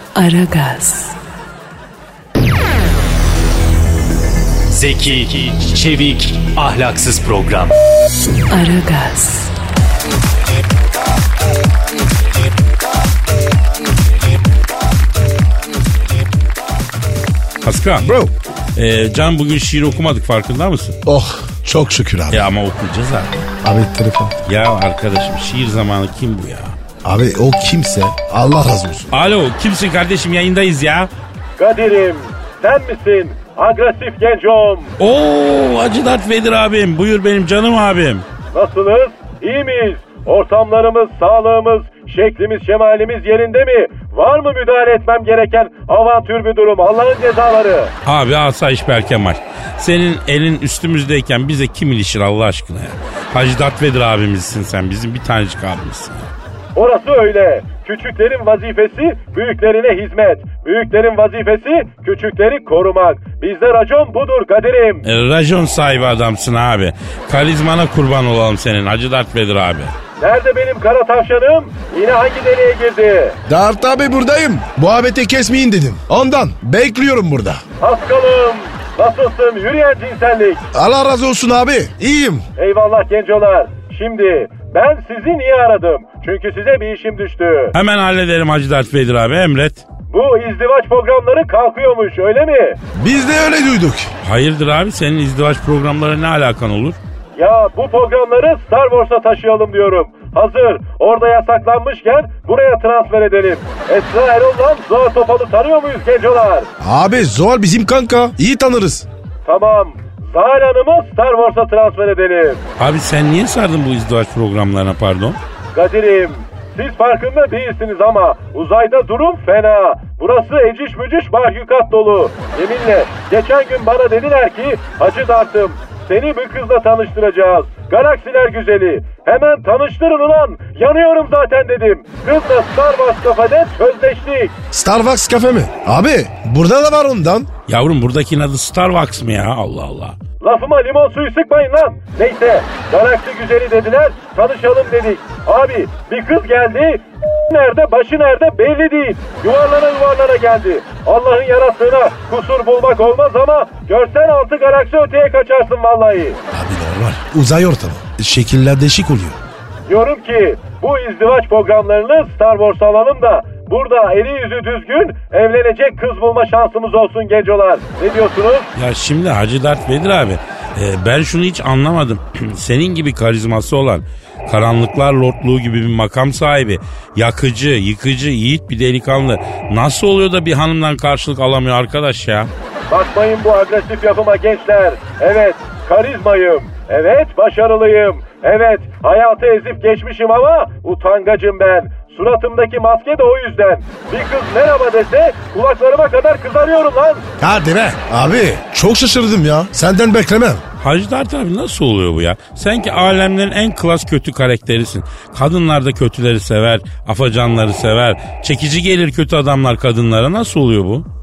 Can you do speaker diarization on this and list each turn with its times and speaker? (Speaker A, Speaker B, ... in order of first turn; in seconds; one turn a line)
Speaker A: 0.1-1.1
Speaker B: 4.7-7.7
Speaker A: 8.5-9.5
Speaker C: 17.6-18.1
Speaker D: 18.0-18.3
Speaker C: 18.8-21.0
Speaker D: 21.1-22.4
Speaker C: 22.3-23.5
Speaker D: 23.6-24.3
Speaker C: 24.4-26.8
Speaker D: 27.0-29.1
Speaker C: 29.1-31.1
Speaker E: 31.6-34.9
Speaker C: 35.0-38.2
Speaker E: 38.5-47.9
Speaker C: 48.0-56.3
Speaker E: 56.7-65.0
Speaker C: 65.0-69.9
Speaker E: 70.2-73.4
Speaker D: 73.5-77.6
Speaker E: 77.8-80.7
Speaker D: 80.7-82.5
Speaker E: 82.6-87.7
Speaker C: 87.7-89.8
Speaker E: 90.1-92.8
Speaker D: 93.0-94.1
Speaker C: 94.2-97.0
Speaker E: 97.3-106.7
Speaker D: 106.8-109.0
Speaker E: 109.5-112.6
Speaker C: 112.8-115.4
Speaker E: 115.7-134.5
Speaker D: 134.7-137.5
Speaker C: 137.7-140.2
Speaker E: 140.4-156.4
Speaker D: 156.5-159.4
Speaker E: 159.9-168.7
Speaker C: 168.7-182.5
Speaker E: 182.9-197.2
Speaker D: 197.4-200.6
Speaker C: 200.8-211.0